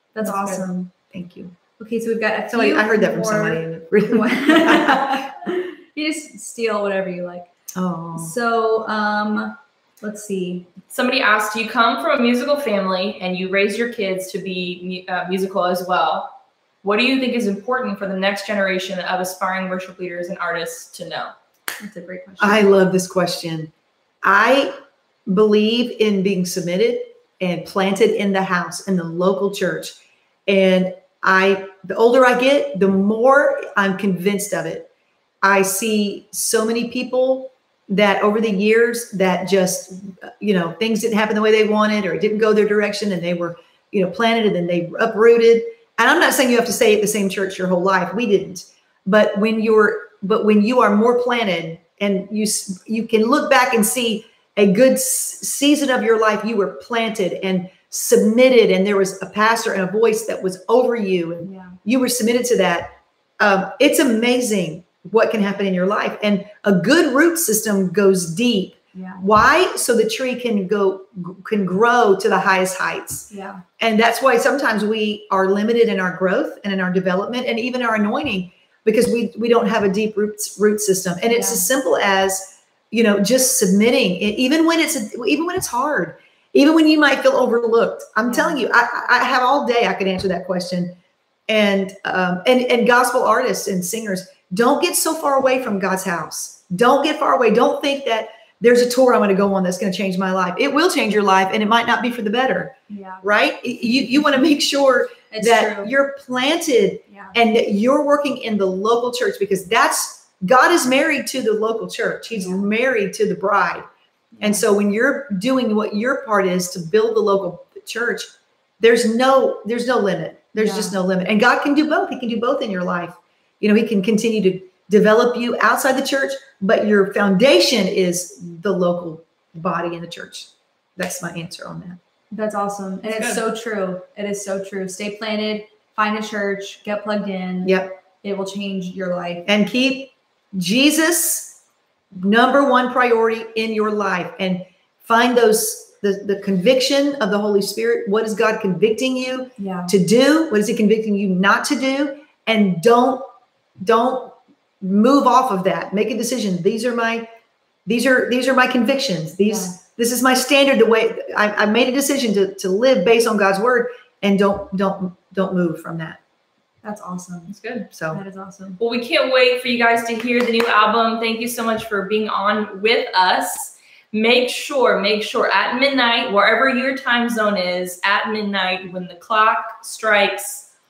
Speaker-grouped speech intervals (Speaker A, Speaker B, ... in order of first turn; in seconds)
Speaker A: 0.1-0.9, 1.8-7.5, 8.2-10.7, 21.8-22.7, 61.4-61.8, 68.9-69.2, 73.3-73.6, 81.3-81.6, 88.3-88.6, 102.9-103.2, 105.3-105.9, 112.4-112.6, 114.4-114.6, 120.6-121.0, 132.3-139.5, 149.6-149.9, 159.5-159.8, 166.8-167.5, 168.1-168.8
Speaker B: 0.2-1.6, 2.5-5.3, 7.8-8.3, 22.4-23.7, 24.2-24.8, 25.3-34.9, 35.4-91.0, 91.5-113.9, 114.4-132.0, 133.1-133.4, 137.6-137.9, 139.5-141.6, 142.1-153.2, 153.8-157.3, 157.9-166.2, 167.9-168.2
Speaker C: 10.9-21.3, 167.5-167.9, 168.8-180.7